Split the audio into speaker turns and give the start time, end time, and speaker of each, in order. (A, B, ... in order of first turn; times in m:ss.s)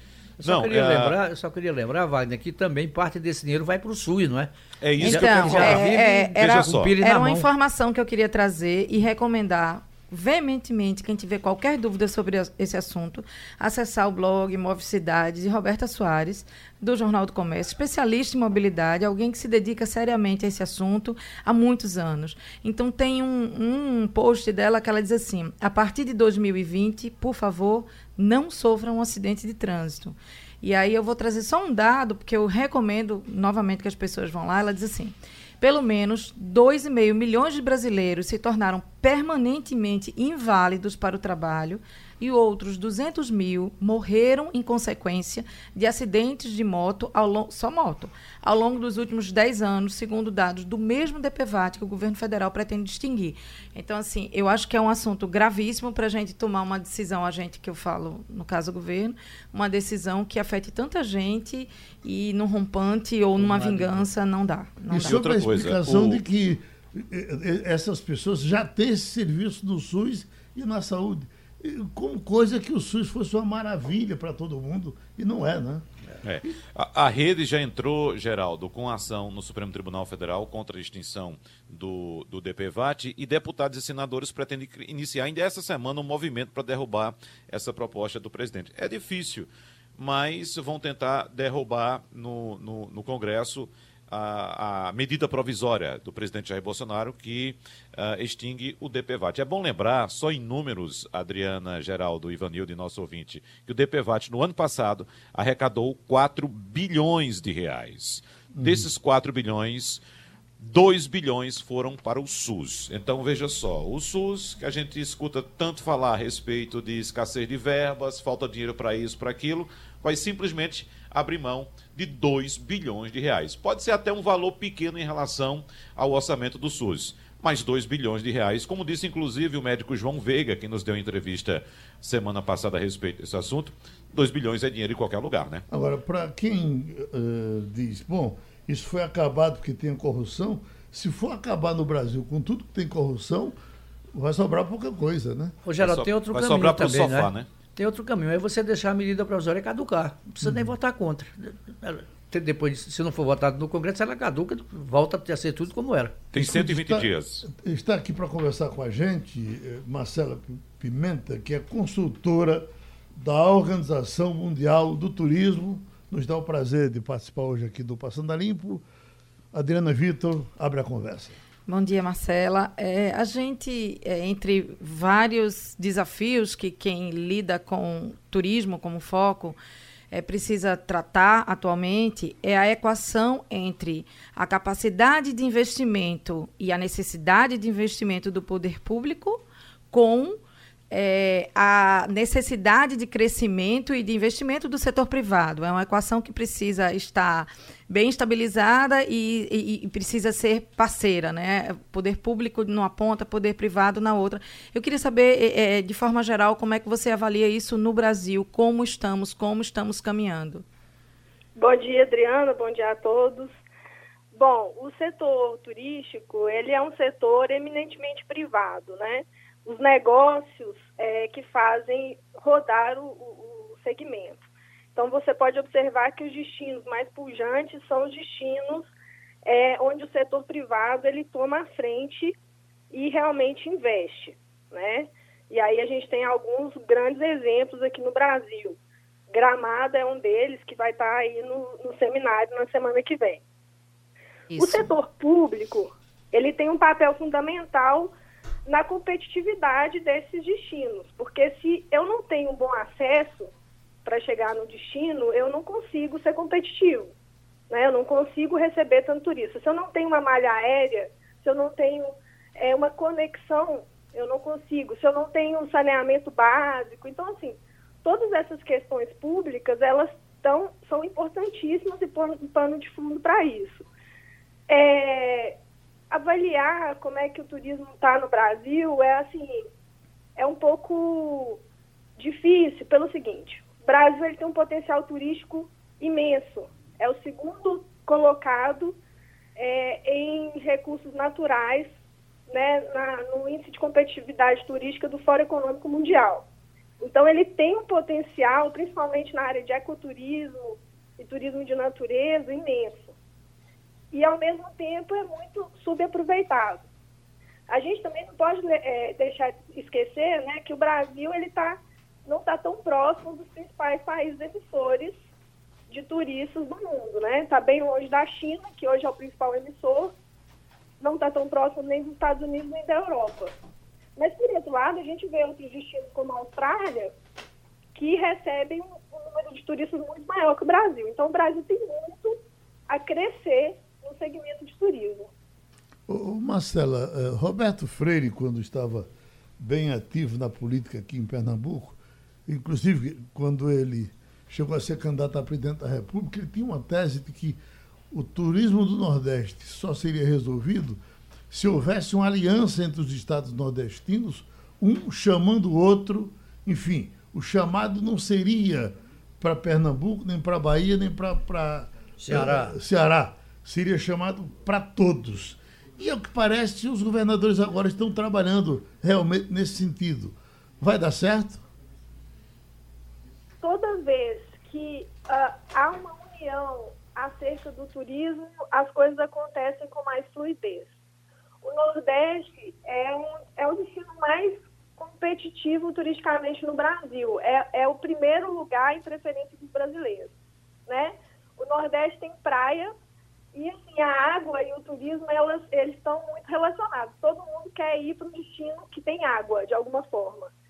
0:00.4-0:07.5 A
0:00.4-0:01.2 B
0:04.8-0:06.9 B
0:05.0-1:05.2 C
1:03.6-1:04.0 A
1:04.9-1:15.8 D
1:04.9-1:06.2 B
1:16.2-1:50.0 B
1:48.5-1:48.9 D
1:50.6-2:15.6 B
2:15.7-2:23.6 D
2:24.1-2:25.6 D
2:25.6-2:36.2 A
2:25.8-2:27.5 B
2:30.4-2:30.7 D
2:36.3-2:48.8 D
2:36.3-2:37.4 B
2:49.5-2:51.4 D
2:51.6-2:59.6 C
3:00.1-3:10.4 C
3:10.9-3:30.6 C
3:31.6-3:33.6 E
3:34.3-3:44.4 E
3:44.9-3:48.9 E
3:49.4-3:52.4 E
3:52.9-3:58.8 E
3:59.3-4:03.4 E
4:04.5-4:04.9 C
4:04.6-4:08.1 E
4:08.6-4:13.5 E
4:14.0-4:17.1 E
4:17.7-4:33.8 E
4:34.7-4:35.6 E
4:36.1-4:39.6 E
4:40.4-4:41.6 E
4:42.2-4:49.0 E
4:49.6-4:51.9 E
4:52.5-4:56.4 E
4:57.0-5:03.1 E
5:04.1-5:06.9 E
5:07.7-5:15.2 E
5:15.9-5:20.1 E
5:21.0-5:23.6 E
5:24.2-5:27.1 E
5:27.9-5:35.3 E
5:36.1-5:47.6 D
5:48.1-6:11.6 D
6:02.2-6:02.8 A
6:13.6-6:20.9 E
6:21.6-6:30.3 E
6:30.9-6:32.9 E
6:33.5-6:40.5 E